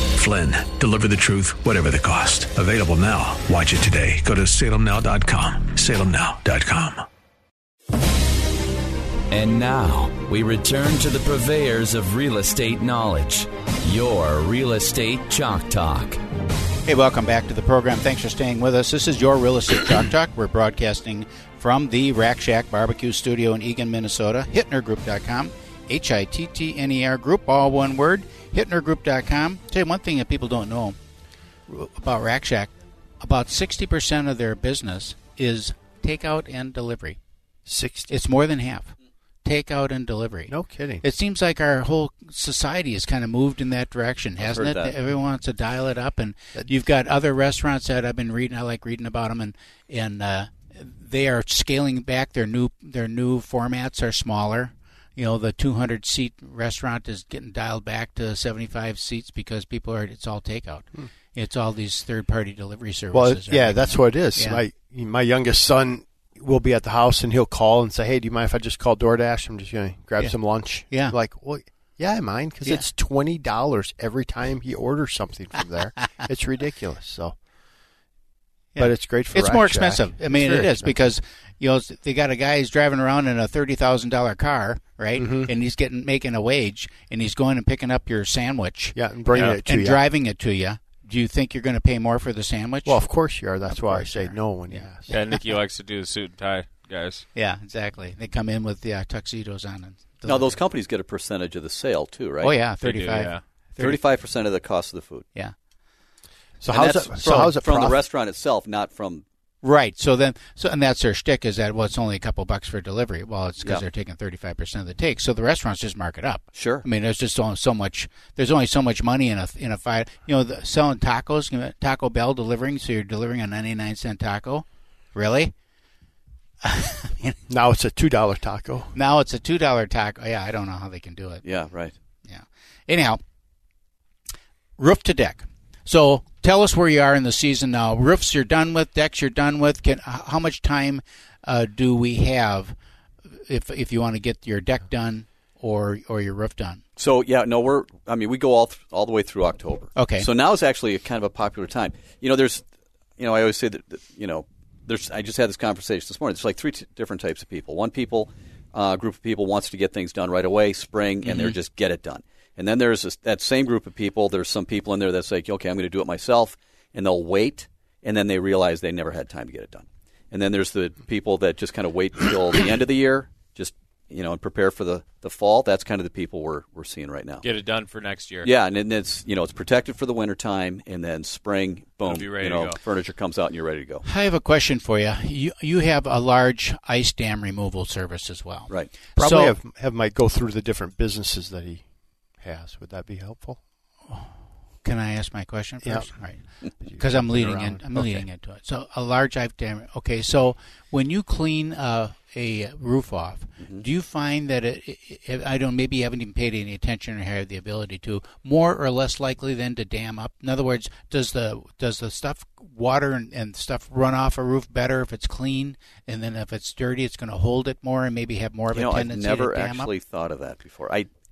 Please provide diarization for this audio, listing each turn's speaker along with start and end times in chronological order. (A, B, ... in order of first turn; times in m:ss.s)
0:00.1-0:07.0 A
0:09.3-0:16.2 B
0:16.9-0:31.0 C
0:31.7-0:37.2 C
0:37.7-0:38.1 D
0:38.1-0:38.9 C
0:39.4-1:04.6 C
0:40.5-0:41.0 D
0:44.4-0:45.0 E
1:03.1-1:17.4 D
1:10.9-1:11.2 C
1:18.8-1:35.4 C
1:18.8-1:21.0 D
1:25.2-1:25.5 D
1:29.0-1:30.0 D
1:32.8-1:35.1 D
1:35.1-1:37.2 F
1:37.3-1:40.6 C
1:40.3-1:42.5 E
1:42.4-1:44.0 C
1:42.8-1:43.4 F
1:43.8-1:45.3 E
1:46.6-1:48.0 D
1:46.7-1:49.2 E
1:49.6-2:05.5 C
1:56.5-1:56.9 E
2:06.6-2:07.4 C
2:07.5-2:08.9 D
2:08.9-2:11.4 C
2:11.4-2:12.0 E
2:12.2-2:13.2 C
2:14.8-2:22.8 C
2:23.4-2:26.8 C
2:27.0-2:32.6 E
2:30.0-2:30.3 C
2:33.2-2:57.4 E
2:41.2-2:41.6 C
2:57.4-2:58.5 F
2:58.4-3:04.0 E
3:02.0-3:02.8 F
3:04.0-3:09.6 C
3:09.2-3:11.8 D
3:12.4-3:13.6 D
3:14.8-3:16.4 C
3:15.8-3:16.2 D
3:16.8-3:18.3 D
3:17.0-3:39.9 C
3:38.7-3:41.1 E